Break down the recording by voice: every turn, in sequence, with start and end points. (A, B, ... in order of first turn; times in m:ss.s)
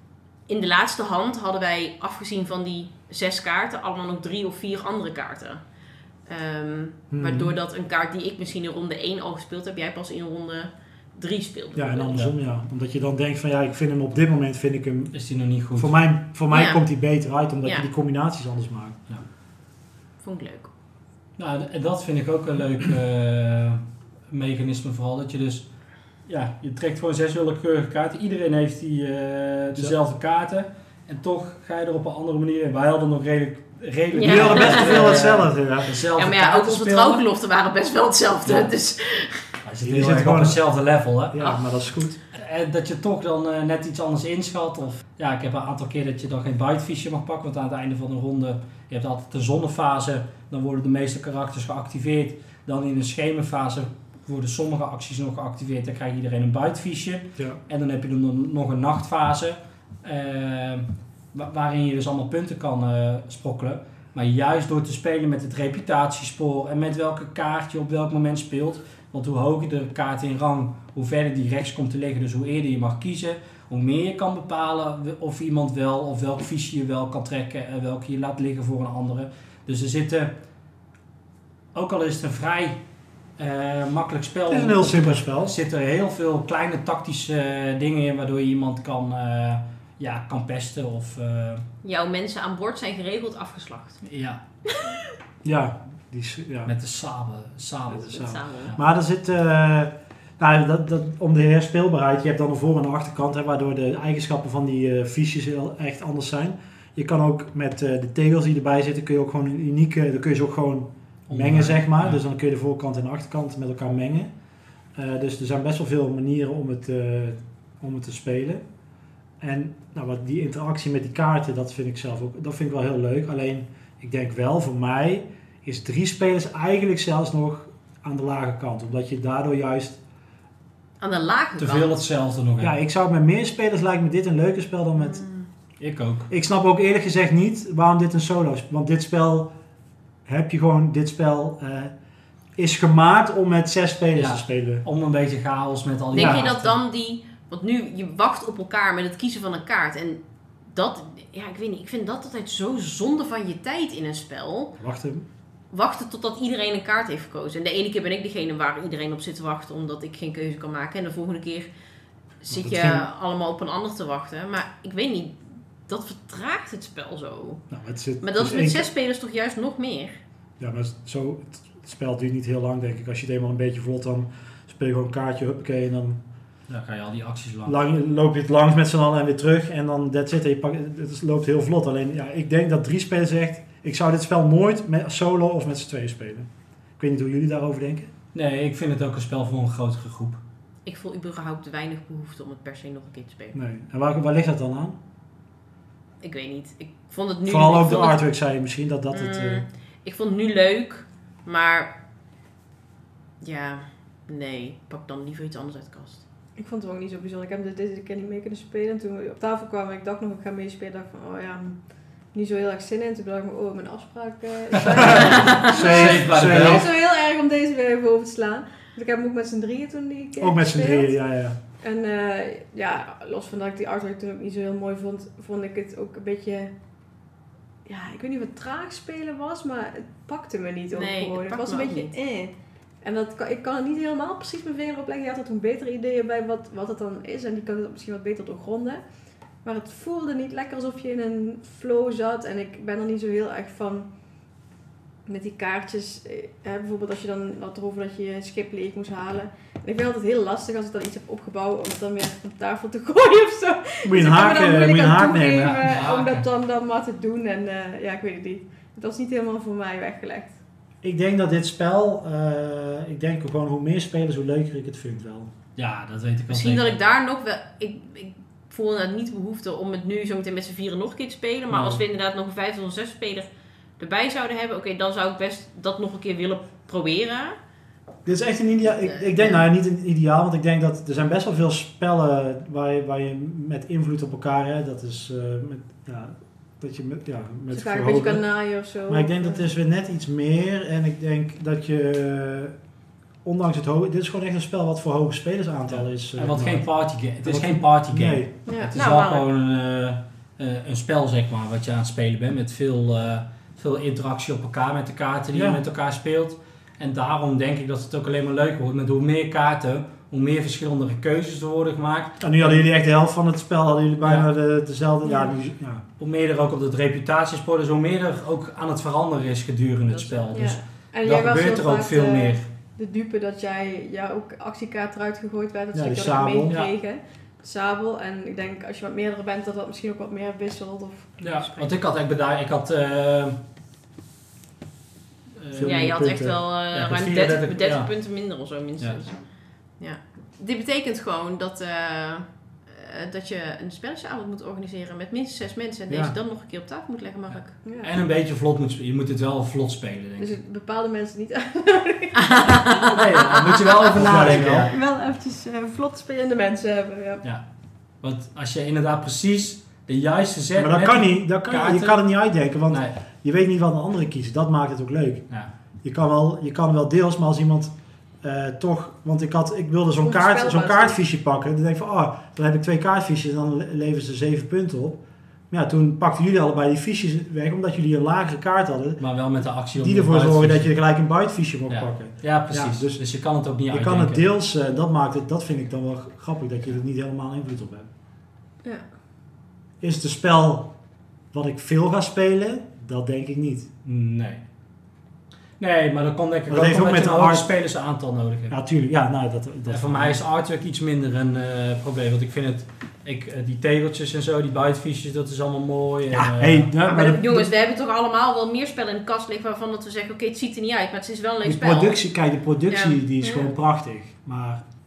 0:00.5-0:05.6 A
0:06.3-0:12.2 A
0:07.1-0:07.5 B
0:11.8-0:15.1 B
0:15.1-0:16.0 C
0:15.8-0:19.0 B
0:16.5-0:16.8 A
0:20.2-0:20.7 A
0:21.4-0:25.7 C
0:26.3-0:37.2 C
0:34.1-0:35.2 A
0:34.2-0:36.0 B
0:36.1-0:39.4 A
0:39.6-0:41.4 C
0:39.8-0:40.6 B
0:41.3-0:42.2 B
0:41.4-0:41.7 A
0:42.3-1:20.4 C
1:21.8-1:22.8 C
1:23.4-1:31.6 C
1:24.5-1:25.6 B
1:31.8-1:34.0 A
1:34.0-1:34.4 C
1:34.7-1:35.0 A
1:35.4-1:36.7 B
1:36.6-1:38.8 C
1:37.9-1:54.3 B
1:38.1-1:38.7 A
1:51.3-1:52.2 C
1:55.0-1:58.6 B
1:59.4-2:10.0 B
2:11.0-2:12.0 A
2:11.6-2:12.8 C
2:12.6-2:15.2 B
2:15.0-2:15.5 A
2:15.8-2:16.3 C
2:16.3-2:19.5 B
2:20.3-2:21.9 B
2:22.6-2:24.8 B
2:24.2-2:26.8 C
2:26.1-2:26.5 B
2:26.1-2:34.7 A
2:34.8-2:35.3 B
2:35.7-2:41.7 A
2:42.4-2:47.6 A
2:42.5-2:43.1 B
2:47.7-2:48.8 B
2:48.2-2:50.2 A
2:50.6-2:56.2 B
2:56.7-2:57.8 C
2:57.7-3:08.1 B
3:08.3-3:10.4 C
3:10.8-3:13.6 A
3:13.5-3:15.0 B
3:16.2-3:18.2 A
3:17.5-3:19.6 B
3:19.1-3:21.9 A
3:23.4-3:26.2 A
3:26.6-3:31.8 D
3:32.3-3:41.2 D
3:34.8-3:36.9 C
3:35.0-3:36.9 B
3:40.4-3:41.6 B
3:41.8-3:46.7 D
3:47.9-3:59.0 D
3:50.9-3:52.1 A
3:59.6-4:04.1 D
4:05.3-4:20.6 D
4:14.0-4:15.9 B
4:15.6-4:16.5 C
4:21.0-4:25.5 B
4:25.8-4:27.0 C
4:26.5-4:37.6 A
4:31.7-4:32.0 B
4:38.3-4:48.5 B
4:38.8-4:39.6 A
4:47.7-4:49.7 D
4:49.1-4:52.8 B
4:53.4-4:56.9 B
4:55.9-5:12.8 C
4:57.4-4:58.5 B
4:58.7-4:58.9 D
4:59.0-4:59.5 A
5:05.5-5:05.8 B
5:12.4-5:16.0 B
5:15.2-5:15.5 D
5:16.2-5:22.7 C
5:20.1-5:20.5 A
5:20.5-5:32.0 D
5:25.9-5:26.9 B
5:31.4-5:33.6 C
5:35.6-5:36.2 C
5:35.7-5:36.6 B
5:35.8-5:39.4 A
5:36.9-5:38.1 C
5:40.0-5:47.7 A
5:46.1-5:46.4 B
5:47.8-5:48.1 D
5:48.0-5:50.6 C
5:50.4-5:53.1 D
5:52.4-5:53.9 A
5:53.1-5:54.9 C
5:54.0-5:54.9 B
5:54.2-5:57.4 D
5:58.2-6:02.2 C
6:00.8-6:05.5 B
6:06.0-6:19.2 B
6:10.2-6:11.2 D
6:19.2-6:20.9 C
6:20.0-6:23.2 B
6:21.9-6:24.5 C
6:23.9-6:28.1 B
6:30.0-6:30.9 B
6:31.5-6:33.9 B
6:34.0-6:34.6 C
6:35.8-6:38.8 C
6:36.7-6:37.7 B
6:38.7-6:40.4 B
6:39.9-6:46.9 C
6:46.3-6:47.7 B
6:47.0-6:52.2 A
6:51.6-6:54.8 B
6:52.9-6:53.2 A
6:53.4-6:53.7 D